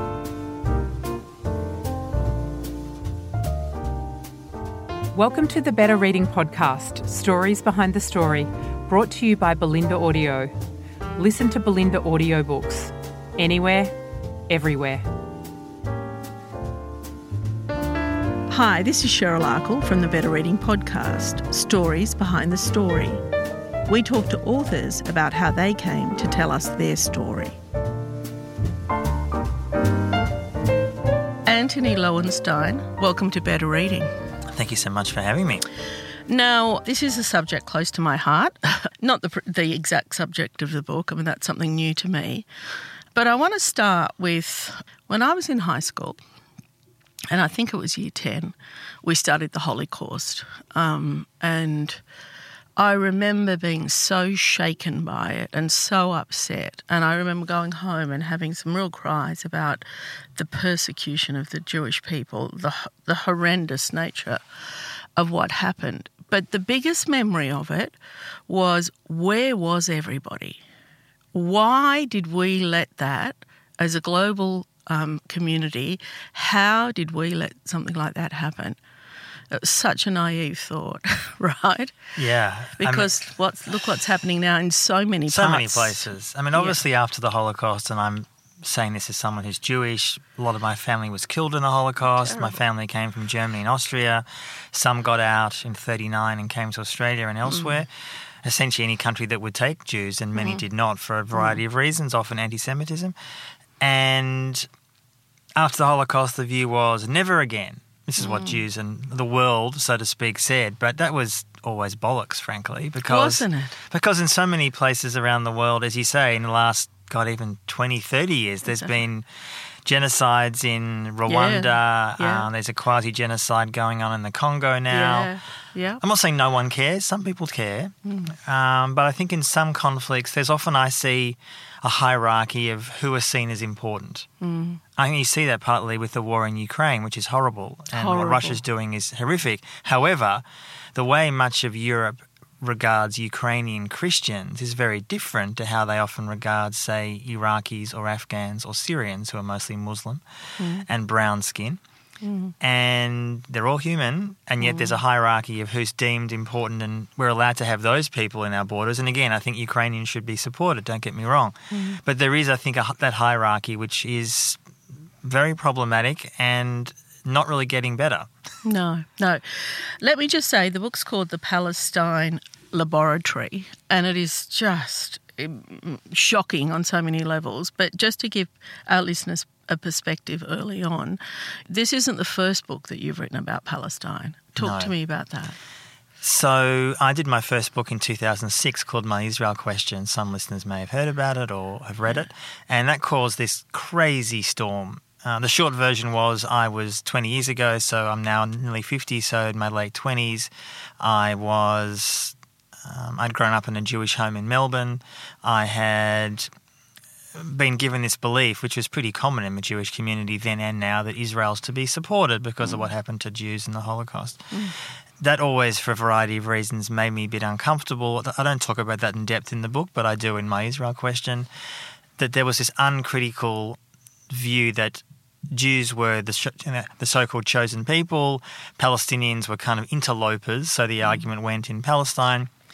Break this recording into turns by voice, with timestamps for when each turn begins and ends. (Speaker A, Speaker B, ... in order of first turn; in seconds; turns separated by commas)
Speaker A: 5.2-10.5, Speaker A: 11.2-13.9, Speaker A: 14.5-15.0, Speaker B: 18.5-23.2, Speaker B: 23.9-27.6, Speaker B: 31.5-34.1, Speaker C: 34.5-35.6, Speaker B: 36.3-42.5, Speaker B: 43.1-46.2, Speaker B: 47.3-52.0, Speaker B: 52.8-59.8, Speaker B: 60.4-64.4, Speaker B: 65.2-68.0, Speaker B: 68.5-70.6, Speaker B: 71.3-78.8, Speaker B: 79.5-81.9, Speaker C: 82.2-83.2, Speaker B: 82.8-86.8, Speaker C: 85.3-97.9, Speaker B: 92.2-92.6, Speaker B: 97.5-97.8, Speaker C: 98.4-103.2, Speaker B: 100.4-100.6, Speaker B: 101.3-101.6, Speaker C: 103.8-104.7, Speaker C: 105.6-119.3, Speaker B: 108.2-108.6, Speaker B: 113.0-113.8, Speaker B: 118.7-118.9, Speaker C: 119.8-125.3, Speaker B: 121.3-122.5, Speaker B: 124.9-126.0, Speaker C: 126.0-134.3, Speaker B: 128.1-128.3, Speaker B: 134.4-134.8, Speaker C: 135.0-150.2, Speaker B: 137.9-138.6, Speaker B: 150.6-150.9, Speaker C: 150.8-151.8, Speaker B: 152.2-152.5, Speaker C: 152.6-164.6, Speaker B: 154.6-155.0, Speaker B: 161.7-162.0, Speaker C: 165.2-168.3, Speaker B: 168.7-185.6, Speaker C: 184.6-184.9, Speaker C: 186.2-206.5, Speaker C: 207.3-214.4, Speaker C: 215.2-221.5, Speaker C: 222.2-223.8, Speaker C: 224.3-232.5